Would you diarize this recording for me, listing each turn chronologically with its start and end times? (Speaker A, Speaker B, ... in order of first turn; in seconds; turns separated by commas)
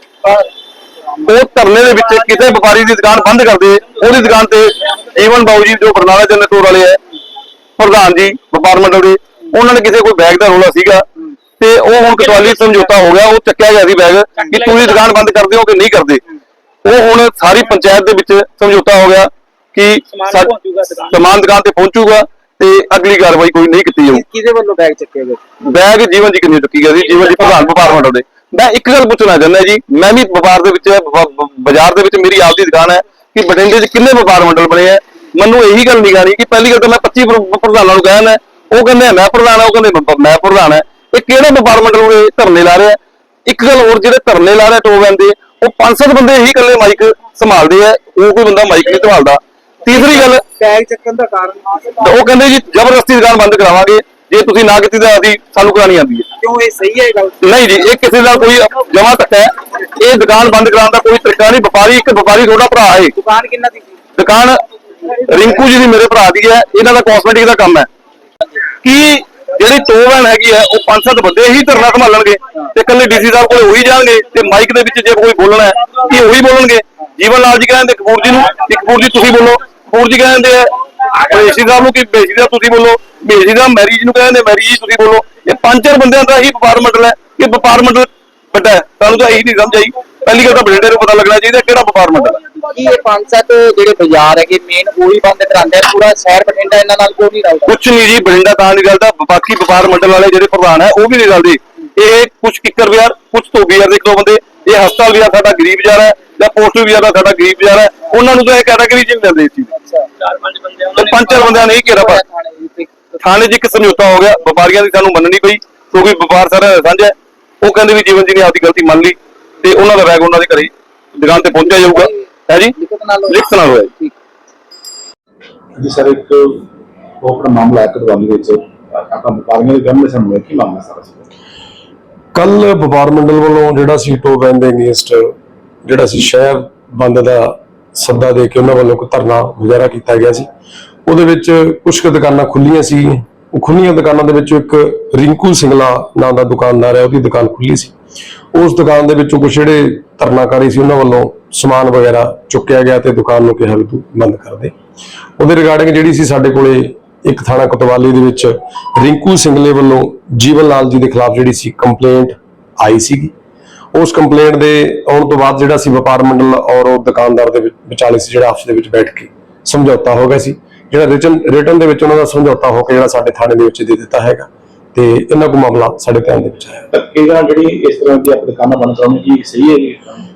Speaker A: 1.2-7.0, Speaker A: 7.8-11.0, Speaker A: 11.6-16.2, Speaker B: 14.5-14.9, Speaker A: 16.8-24.2, Speaker B: 20.2-21.1, Speaker B: 24.1-25.4, Speaker A: 25.6-50.4, Speaker B: 27.2-27.6, Speaker B: 49.9-52.1, Speaker A: 52.0-56.3, Speaker B: 56.4-57.5, Speaker A: 57.4-63.1, Speaker B: 63.1-64.0, Speaker A: 64.2-64.6, Speaker A: 65.2-67.9, Speaker A: 68.8-92.4, Speaker B: 92.7-97.8, Speaker A: 97.7-109.7, Speaker B: 109.7-110.1, Speaker B: 110.7-113.1, Speaker A: 110.9-112.2, Speaker A: 113.2-122.7, Speaker B: 122.8-124.1, Speaker A: 123.3-123.9, Speaker C: 125.8-126.6, Speaker C: 127.2-131.2, Speaker D: 132.3-140.5, Speaker D: 141.1-147.9, Speaker D: 148.5-154.7, Speaker D: 155.4-163.3, Speaker D: 163.9-176.9, Speaker C: 176.9-180.2